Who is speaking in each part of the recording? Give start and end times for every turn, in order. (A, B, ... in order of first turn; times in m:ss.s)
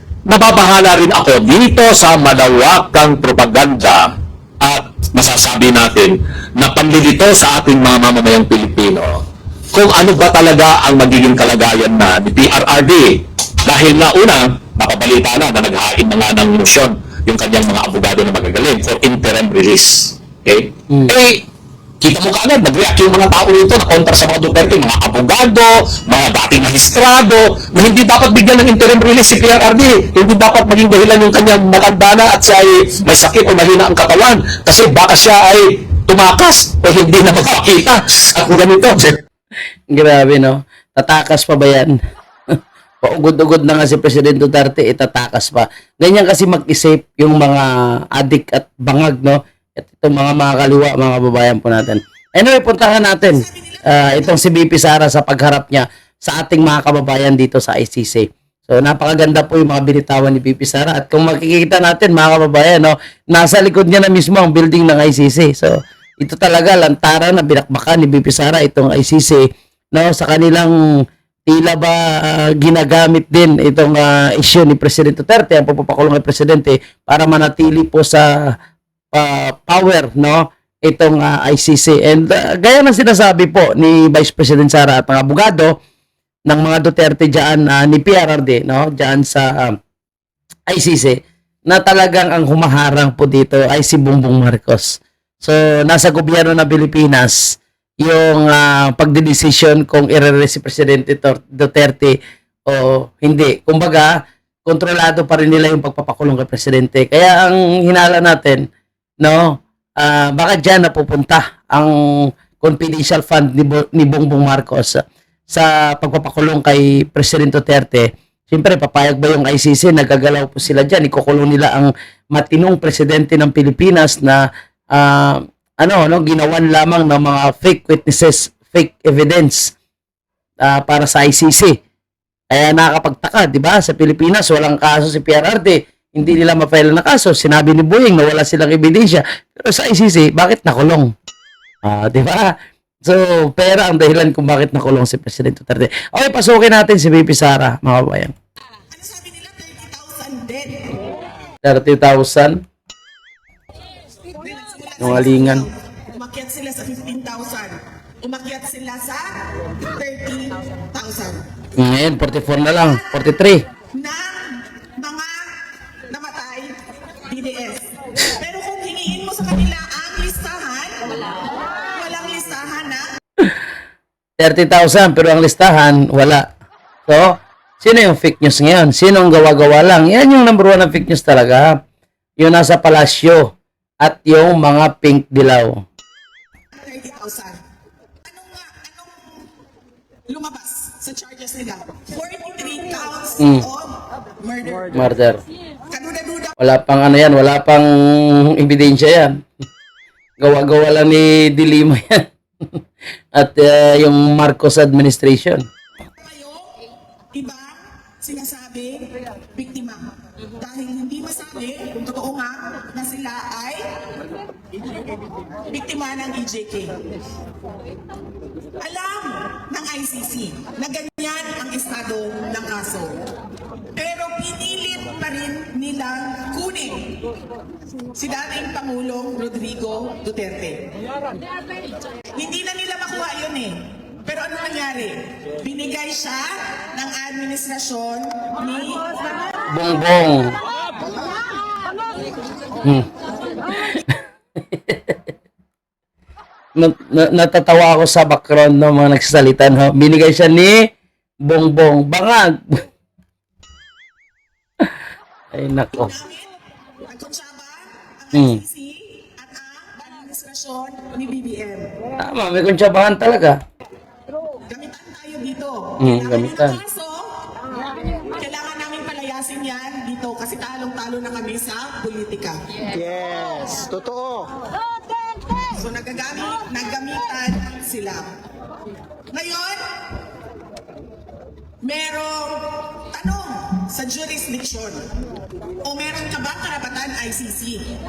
0:00.2-0:21.4 A
0:22.0-0:39.2 A
0:39.9-0:42.0 B
0:42.5-1:18.6 B
0:53.2-0:54.4 C
1:19.1-1:25.8 B
1:26.5-1:29.8 B
1:30.7-1:48.7 B
1:49.2-2:09.8 B
2:10.6-2:11.8 B
2:12.5-2:21.1 B
2:21.8-2:28.3 B
2:28.9-2:31.0 C
2:31.6-2:32.6 B
2:34.3-2:41.4 C
2:35.0-2:35.7 B
2:41.8-2:43.7 B
2:42.8-2:43.2 C
2:43.9-2:51.2 C
2:51.8-2:53.0 C
2:54.4-2:56.5 B
2:57.1-3:01.8 B
3:02.4-3:05.8 B
3:06.8-3:07.6 C
3:08.2-3:09.5 C
3:10.3-3:15.1 C
3:14.9-3:15.4 B
3:15.9-3:16.6 C
3:16.6-3:19.4 B
3:20.4-3:22.8 B
3:23.3-3:25.6 B
3:26.1-3:26.8 C
3:27.3-3:33.9 C
3:35.7-3:37.0 C
3:38.8-3:43.2 C
3:43.9-3:47.2 C
3:48.1-3:50.9 C
3:52.4-3:59.2 C
3:59.7-4:00.6 B
4:02.8-4:03.1 B
4:03.9-4:05.2 B
4:06.8-4:10.8 B
4:11.4-4:12.8 B
4:15.5-4:16.1 B
4:15.9-4:16.5 C
4:17.0-4:21.9 C
4:18.3-4:18.6 B
4:22.2-4:23.6 B
4:24.7-4:27.4 C
4:26.0-4:26.8 B
4:28.4-4:32.6 C
4:33.4-4:33.8 C
4:35.6-4:38.3 C
4:39.3-4:39.8 C
4:41.8-4:45.1 C
4:45.8-4:47.9 C